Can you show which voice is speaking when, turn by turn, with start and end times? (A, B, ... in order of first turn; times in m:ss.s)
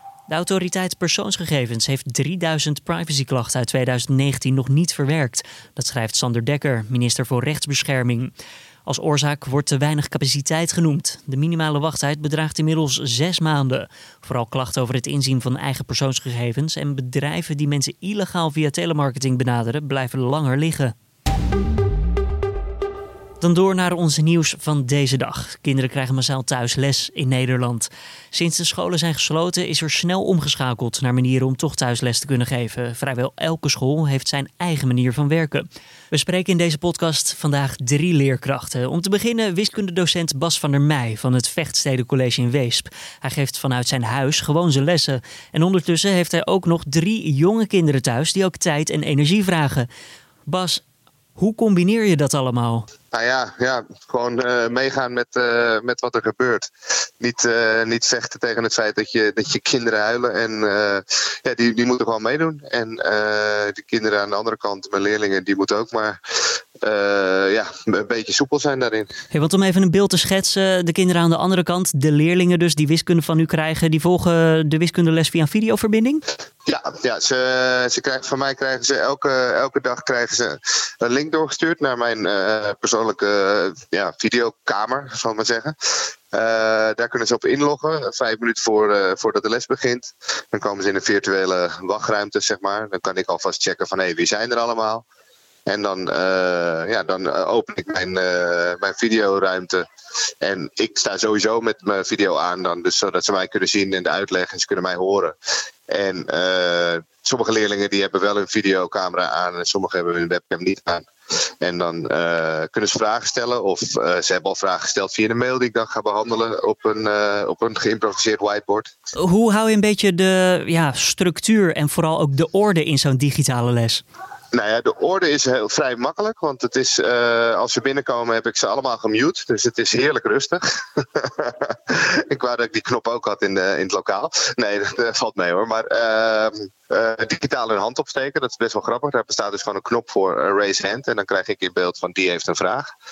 0:00.3-0:08.3 A
0:08.8-0:20.9 A
0:23.4-0:49.9 A
0:50.4-0:50.8 A
0:51.4-0:52.8 A
0:53.1-1:06.2 B
1:06.8-1:09.1 B
1:09.3-1:16.2 A
1:16.6-1:35.0 B
1:35.6-1:39.8 B
1:40.4-1:45.3 B
1:45.9-1:51.1 B
1:51.6-1:58.9 B
1:59.2-2:04.0 A
2:04.5-2:22.9 B